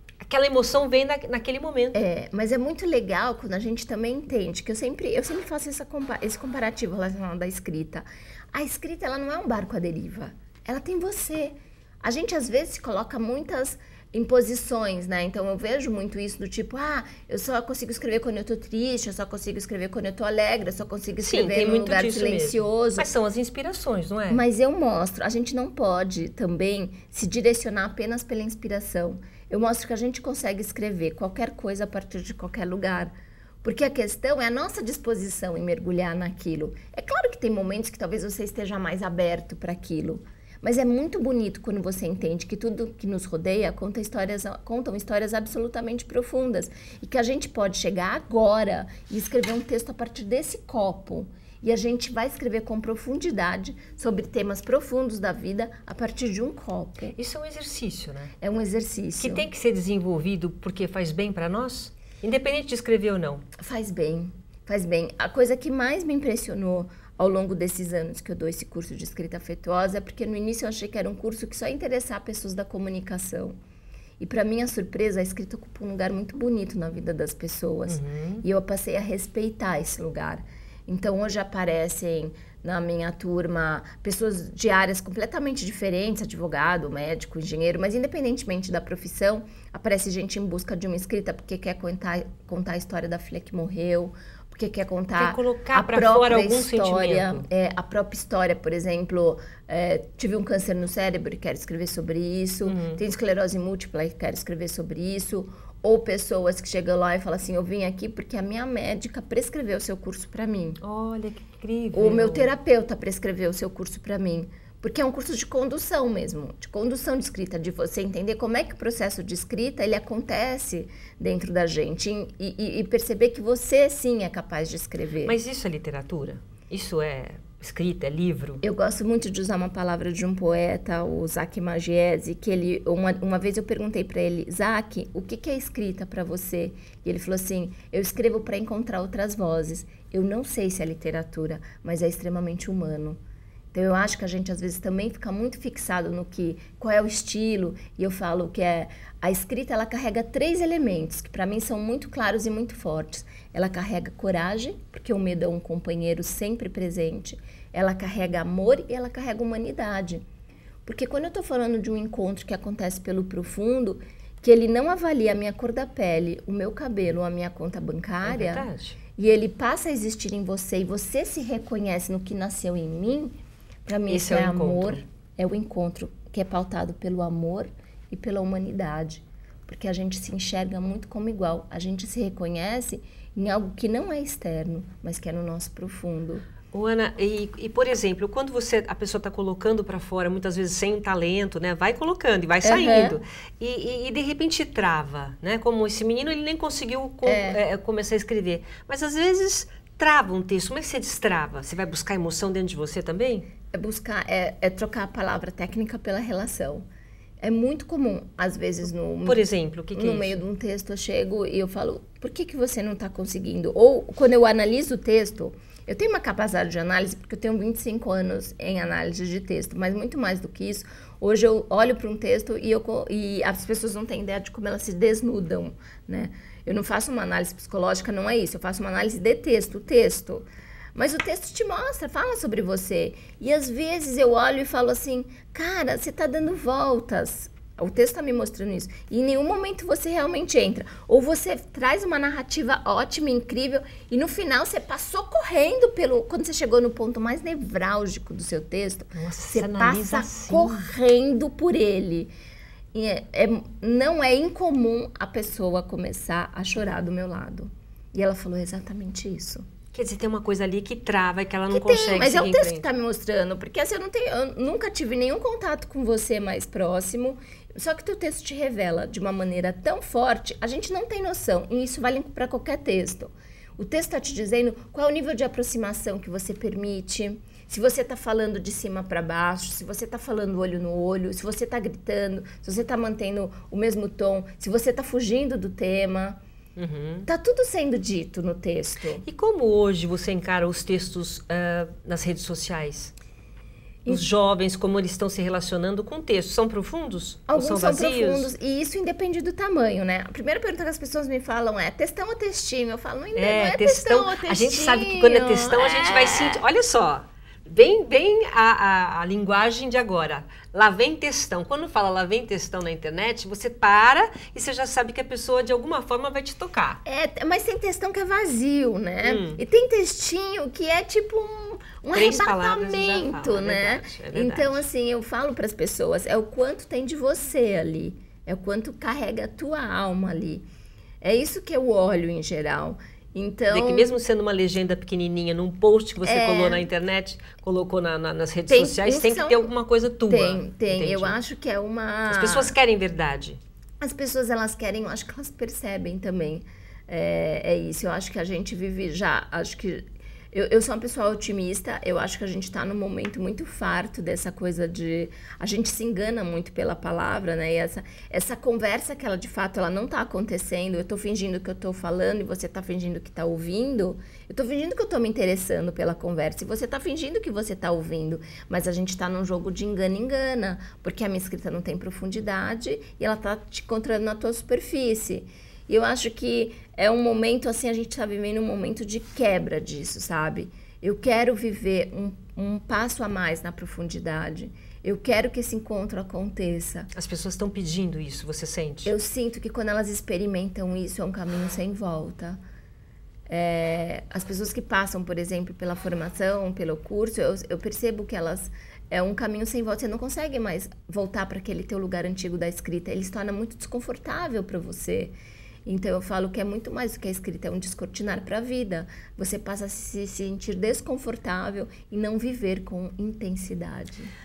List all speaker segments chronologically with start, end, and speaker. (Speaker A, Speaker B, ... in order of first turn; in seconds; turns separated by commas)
Speaker A: 0.2-2.0, Speaker B: 1.9-23.1, Speaker A: 21.2-24.4, Speaker B: 24.3-57.2, Speaker A: 57.1-58.3, Speaker B: 58.4-59.5, Speaker A: 59.2-63.4, Speaker B: 63.6-73.6, Speaker B: 74.2-110.8, Speaker A: 77.9-78.5, Speaker A: 95.2-97.5, Speaker A: 102.6-103.0, Speaker A: 110.8-112.5, Speaker B: 111.9-125.3, Speaker A: 125.2-128.6, Speaker B: 128.6-143.2, Speaker B: 143.7-160.2, Speaker B: 160.8-186.5, Speaker A: 168.2-169.0, Speaker A: 174.1-175.0, Speaker A: 186.7-203.5, Speaker B: 192.6-193.2, Speaker B: 197.2-197.6, Speaker B: 203.7-206.8, Speaker B: 207.4-252.3, Speaker A: 209.2-210.4, Speaker A: 249.1-250.9, Speaker B: 252.9-259.6, Speaker A: 259.9-262.9, Speaker B: 261.7-286.4, Speaker A: 286.8-287.3, Speaker B: 287.2-289.2, Speaker A: 289.2-293.1, Speaker A: 294.1-298.5, Speaker B: 297.5-306.6, Speaker A: 303.3-317.0, Speaker B: 317.0-330.6, Speaker A: 319.2-319.6, Speaker A: 322.1-324.8, Speaker B: 331.2-334.1, Speaker A: 333.7-341.4, Speaker B: 336.2-336.8, Speaker B: 338.7-339.7, Speaker B: 340.3-342.8, Speaker A: 342.3-343.6, Speaker B: 344.0-387.1, Speaker A: 387.1-389.1, Speaker B: 389.0-392.6, Speaker B: 393.5-414.3